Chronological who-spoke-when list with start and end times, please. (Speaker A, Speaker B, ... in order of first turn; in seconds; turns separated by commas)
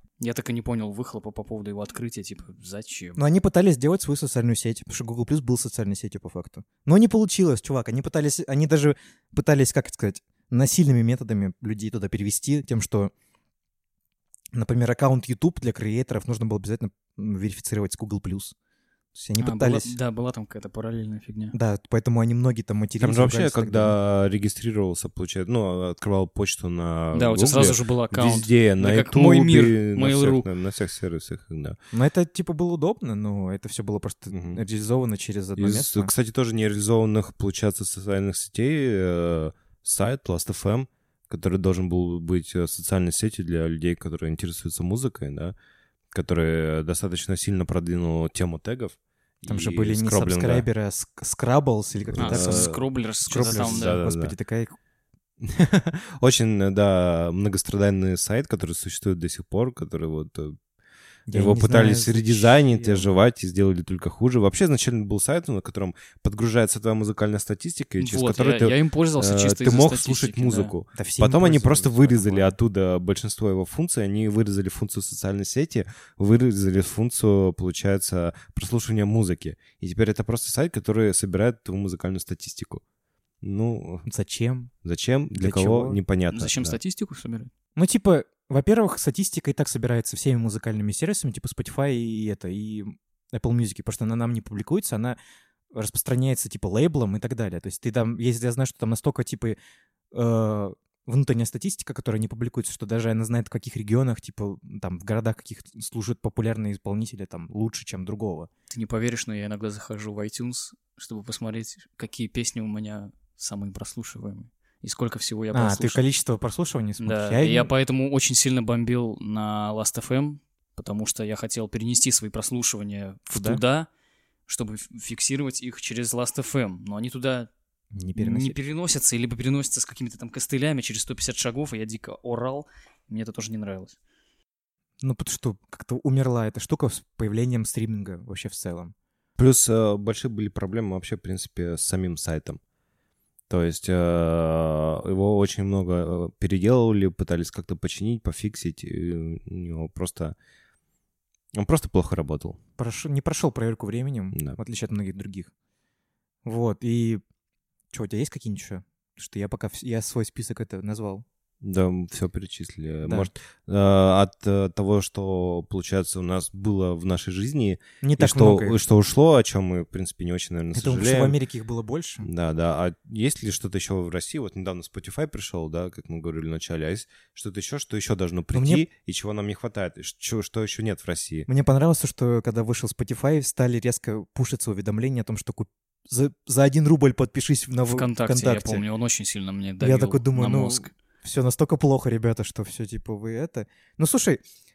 Speaker A: 0.2-3.2, Speaker B: 3.2-13.1, Speaker B: 14.5-18.6, Speaker B: 19.1-19.9, Speaker A: 19.4-21.6, Speaker B: 21.5-23.9, Speaker C: 23.0-31.8, Speaker A: 27.1-30.5, Speaker B: 31.9-36.1, Speaker C: 34.3-34.6, Speaker C: 35.6-45.5, Speaker C: 46.1-50.7, Speaker B: 49.5-52.7, Speaker C: 52.1-52.8, Speaker A: 52.2-54.0, Speaker B: 53.3-54.8, Speaker C: 53.4-54.3, Speaker C: 55.4-60.6, Speaker B: 61.3-63.1, Speaker C: 61.3-82.8, Speaker A: 68.0-70.7, Speaker B: 71.0-72.5, Speaker C: 83.4-84.1, Speaker B: 84.0-84.7, Speaker C: 84.8-86.8, Speaker B: 85.3-86.0, Speaker A: 86.3-87.5, Speaker B: 87.8-95.2, Speaker B: 95.7-99.6, Speaker B: 100.1-108.5, Speaker A: 108.7-116.0, Speaker B: 115.5-117.7, Speaker A: 117.0-123.9, Speaker B: 123.3-123.6, Speaker A: 124.5-127.5, Speaker B: 127.9-128.6, Speaker A: 128.2-134.0, Speaker B: 135.0-138.9, Speaker C: 139.4-142.6, Speaker C: 143.5-150.3, Speaker C: 151.5-152.6, Speaker B: 152.8-155.5, Speaker B: 156.4-157.2, Speaker B: 157.9-161.2, Speaker C: 161.6-171.4, Speaker B: 163.0-163.3, Speaker B: 168.0-168.8, Speaker B: 170.7-172.3, Speaker C: 172.2-181.5, Speaker B: 178.5-178.9, Speaker B: 181.5-188.8, Speaker A: 187.8-190.9, Speaker B: 189.8-194.4